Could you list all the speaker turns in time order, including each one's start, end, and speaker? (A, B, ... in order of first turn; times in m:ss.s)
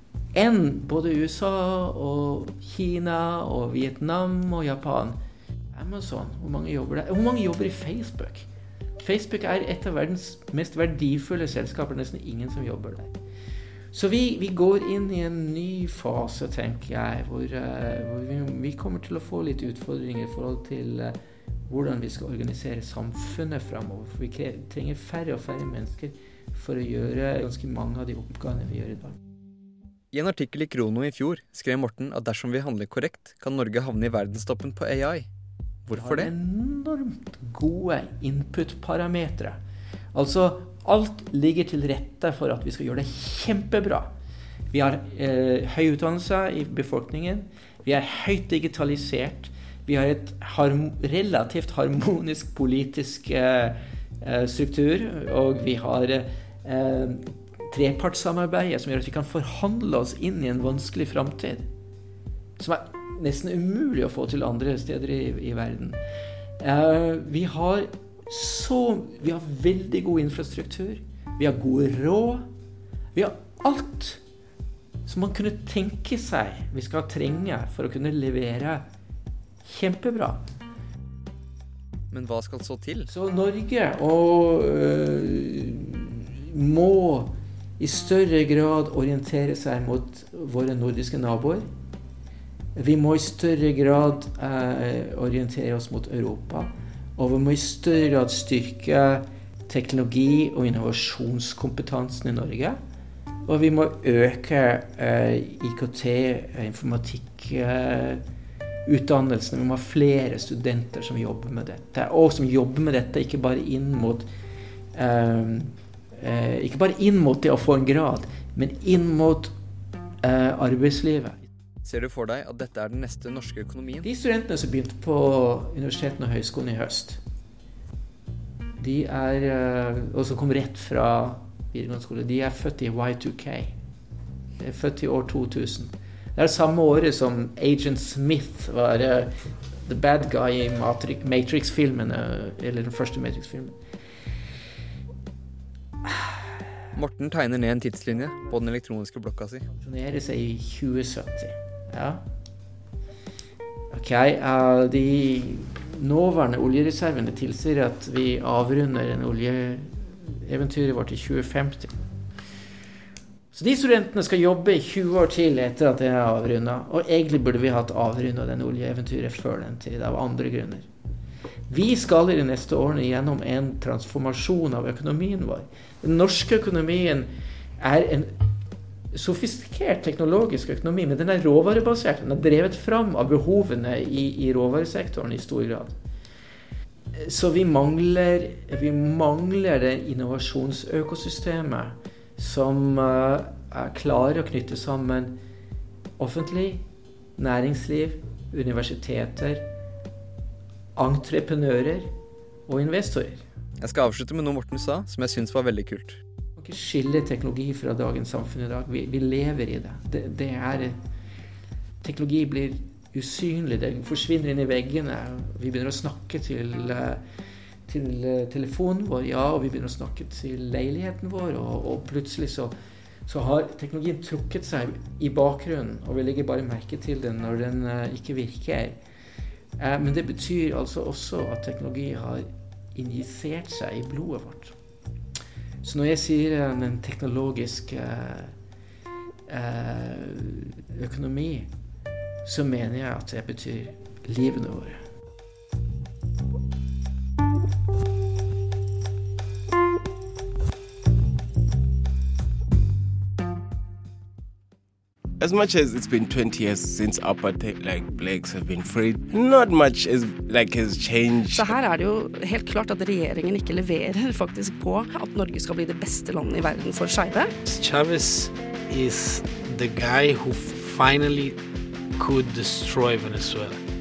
0:00.3-0:05.2 A
0:05.7-0:08.5 A
0:09.0-0:13.1 A
0:13.9-0:21.2 A
0:21.7-0:29.2 A
0:30.1-0:35.3 B
0:35.9-0:36.3 B
0:35.9-0:39.6 A
0:40.1-0:44.1 A
0:44.7-1:01.7 A
1:02.6-1:06.0 A
1:06.6-1:12.4 A
1:13.2-1:14.2 A
1:15.0-1:18.8 A
1:19.6-1:20.4 A
1:22.1-1:23.1 B
1:23.1-1:31.6 A
1:32.8-1:42.8 A
1:43.5-1:48.2 A
1:48.8-1:54.3 A
1:55.0-1:59.5 A
2:00.2-2:01.4 A
2:01.8-2:04.1 B
2:04.0-2:07.2 A
2:08.8-2:13.7 A
2:14.6-2:19.3 A
2:19.8-2:23.8 A
2:27.0-2:29.7 B
2:29.8-2:32.2 A
2:33.9-2:41.9 A
2:43.5-2:50.9 A
2:51.7-2:57.3 A
2:57.8-2:58.3 A
2:59.1-3:06.0 A
3:07.1-3:15.4 A
3:16.2-3:16.8 A
3:17.4-3:19.7 A
3:21.0-3:22.1 A
3:22.7-3:23.4 A
3:23.8-3:26.2 B
3:26.6-3:31.0 A
3:32.0-3:37.2 A
3:37.9-3:42.7 A
3:43.3-3:49.0 A
3:49.8-3:54.8 A
3:55.8-3:58.5 A
3:59.5-4:01.7 A
4:02.4-4:05.0 A
4:15.4-4:21.6 C
4:21.4-4:27.6 D
4:27.7-4:31.6 E
4:32.2-4:33.8 E